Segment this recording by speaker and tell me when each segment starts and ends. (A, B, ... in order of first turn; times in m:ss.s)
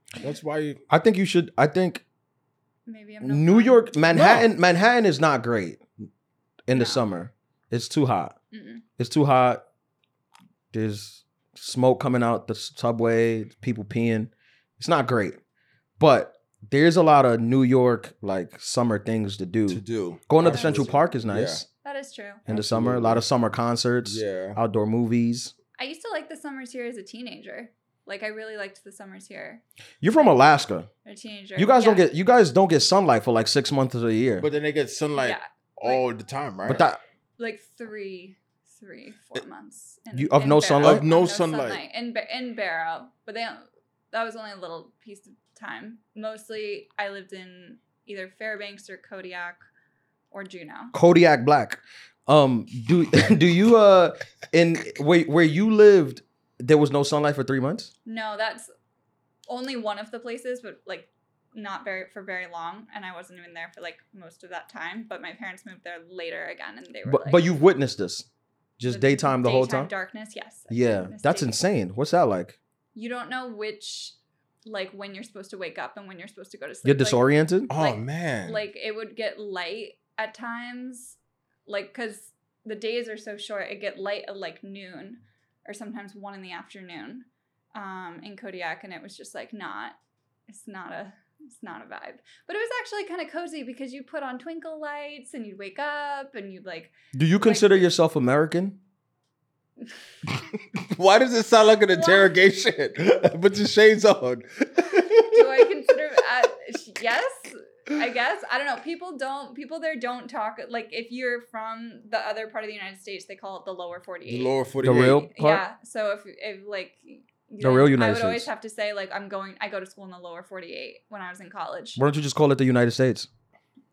0:00.2-0:00.8 A
0:00.9-0:02.0 B
0:02.9-0:03.9 C
0:03.2-0:05.8 B
0:04.1-0:04.5 A
0:06.7-0:08.4 B
0:06.8-0:07.0 C
0:08.5-0:08.8 C
0:09.0-0:09.6 B
0:10.7-0:15.4 B
0:16.0-0:21.7 B
0:19.7-0:21.6 A
0:20.4-0:20.9 C
0:21.8-0:22.4 C
0:22.5-0:23.3 A
0:22.5-0:25.5 B
0:24.0-0:24.6 A
0:25.8-0:29.6 C
0:30.0-0:30.9 B
0:31.0-0:32.1 C
0:31.6-0:34.5 B
0:34.4-0:36.8 A
0:35.2-0:36.0 C
0:36.7-0:37.0 B
0:37.4-0:49.6 C
0:40.1-0:41.0 B
0:40.8-0:41.8 A
0:50.3-0:50.9 C
0:50.9-0:57.9 B
0:58.1-0:58.7 C
0:59.5-1:07.5 C
1:07.0-1:08.3 B
1:08.8-1:09.9 B
1:08.9-1:11.6 C
1:10.7-1:12.6 B
1:13.0-1:30.0 C
1:16.8-1:17.7 B
1:17.7-1:18.6 A
1:30.5-1:37.9 C
1:37.1-1:38.8 B
1:40.8-1:45.9 A
1:41.9-1:42.3 C
1:45.2-1:54.6 C
1:54.3-1:55.2 A
1:54.8-1:55.6 B
1:55.2-2:02.0 C
1:57.6-1:58.5 B
2:02.0-2:03.3 B